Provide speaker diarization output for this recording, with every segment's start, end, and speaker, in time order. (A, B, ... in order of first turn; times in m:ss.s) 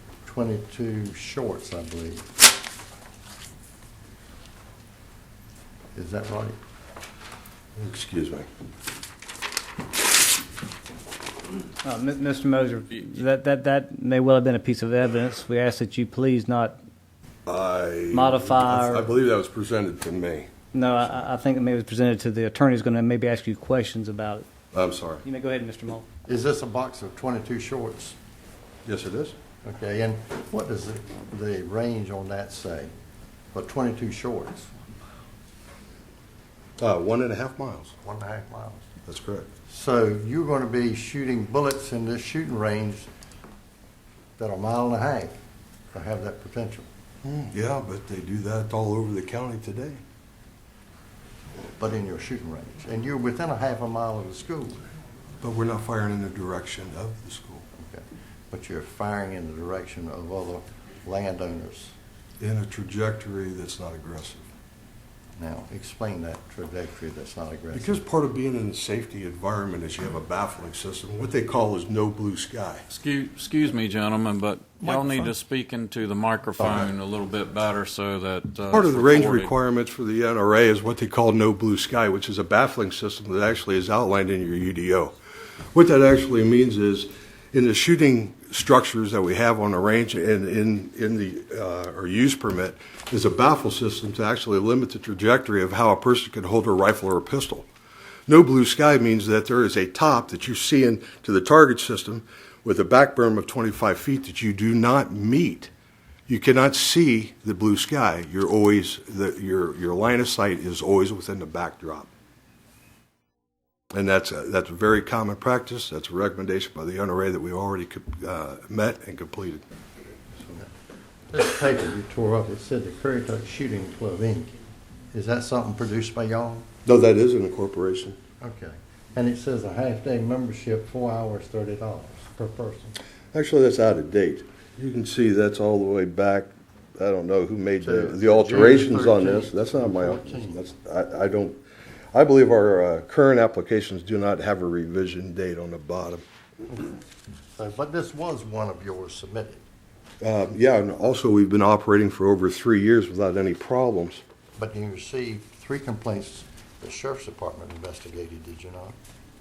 0:00.2-0:02.2 A
0:06.0-0:06.6 A
0:07.8-0:08.5 B
0:11.8-0:16.8 C
0:17.5-0:20.5 B
0:18.1-0:19.1 C
0:20.7-0:24.5 C
0:24.7-0:25.2 B
0:25.3-0:26.1 C
0:26.3-0:28.2 A
0:28.9-0:29.4 B
0:29.6-0:32.9 A
0:33.5-0:34.8 A
0:36.8-0:38.0 B
0:38.0-0:38.9 A
0:39.1-0:39.5 B
0:39.7-0:43.1 A
0:44.4-0:45.3 A
0:45.9-0:46.9 A
0:47.2-0:50.0 B
0:51.8-0:54.8 A
0:55.4-0:57.7 B
0:57.8-1:02.0 A
1:02.4-1:04.5 B
1:05.4-1:08.0 A
1:07.7-1:12.8 B
1:12.9-1:19.5 D
1:18.7-1:25.1 B
1:25.7-1:37.7 B
1:38.3-1:45.7 B
1:46.3-1:52.1 B
1:53.9-1:59.6 B
2:01.3-2:04.6 A
2:05.1-2:06.7 A
2:06.9-2:08.2 B
2:08.4-2:13.0 A
2:13.3-2:21.6 B
2:17.8-2:20.6 A
2:22.1-2:26.2 B
2:27.6-2:29.6 A
2:30.2-2:34.2 B
2:34.6-2:39.0 A